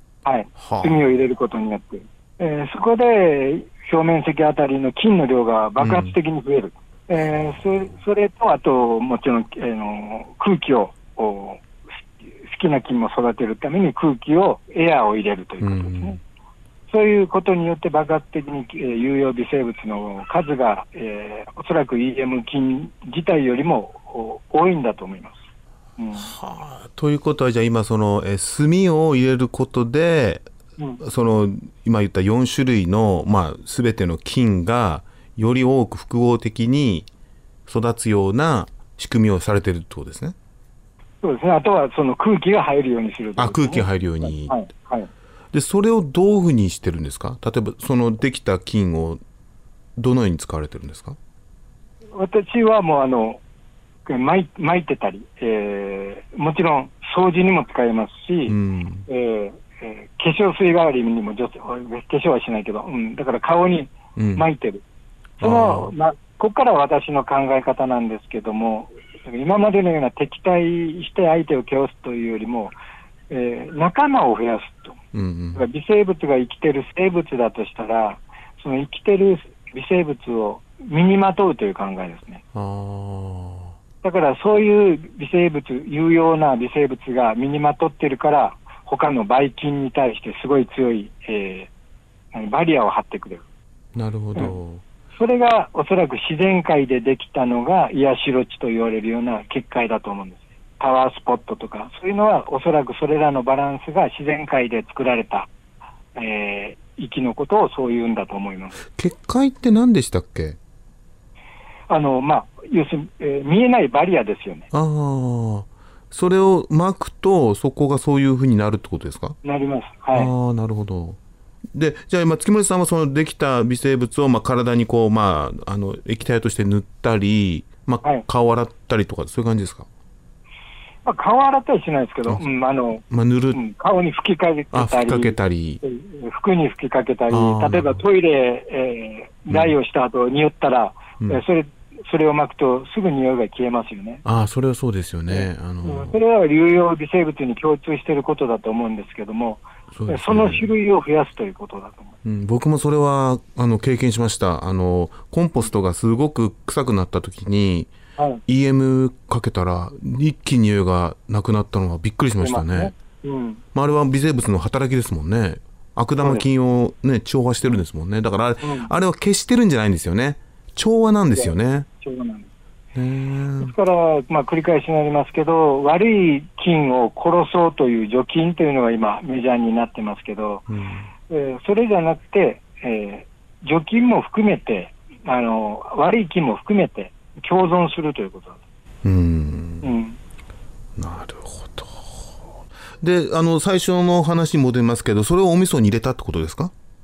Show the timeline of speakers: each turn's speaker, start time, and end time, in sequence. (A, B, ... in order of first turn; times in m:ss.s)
0:00.2-0:11.6 A
0:00.6-0:01.0 B
0:05.8-0:06.1 B
0:07.3-0:07.6 B
0:12.4-0:16.2 A
0:15.6-0:16.2 B
0:16.9-0:25.4 A
0:26.0-0:26.3 A
0:26.2-0:30.4 B
0:31.0-0:37.1 B
0:37.7-0:40.3 B
0:41.2-0:45.1 A
0:43.4-0:44.5 B
0:45.5-0:49.2 B
0:50.0-0:51.2 B
0:52.1-0:53.4 A
0:54.0-0:58.5 A
0:58.5-0:59.0 B
0:59.1-1:04.8 A
1:04.2-1:04.4 B
1:05.4-1:05.9 B
1:05.4-1:12.7 A
1:13.3-1:14.9 A
1:15.1-1:15.6 B
1:15.5-1:22.4 A
1:22.5-1:23.7 B
1:24.0-1:31.7 A
1:32.3-1:33.4 A
1:33.9-1:34.8 B
1:35.2-1:45.5 A
1:46.1-1:48.8 A
1:48.9-1:50.6 B
1:51.9-1:54.6 A
1:54.7-1:59.4 B
1:59.4-2:00.3 A
2:00.1-2:01.2 B
2:01.7-2:09.9 B
2:11.0-2:24.2 A
2:13.1-2:13.6 B
2:14.7-2:15.8 B
2:17.3-2:18.0 B
2:19.5-2:19.7 B
2:24.2-2:26.2 B
2:25.3-2:32.1 A
2:29.9-2:30.7 B
2:32.2-2:37.9 B
2:38.5-2:42.9 B
2:42.4-2:43.6 A
2:43.7-2:51.9 B
2:48.6-2:48.9 A
2:51.3-2:52.5 A
2:52.9-2:53.7 B
2:53.6-3:00.6 A
3:00.7-3:01.1 B
3:01.3-3:08.6 A
3:09.0-3:09.9 B
3:09.8-3:10.2 A
3:11.0-3:12.4 B
3:13.0-3:16.7 B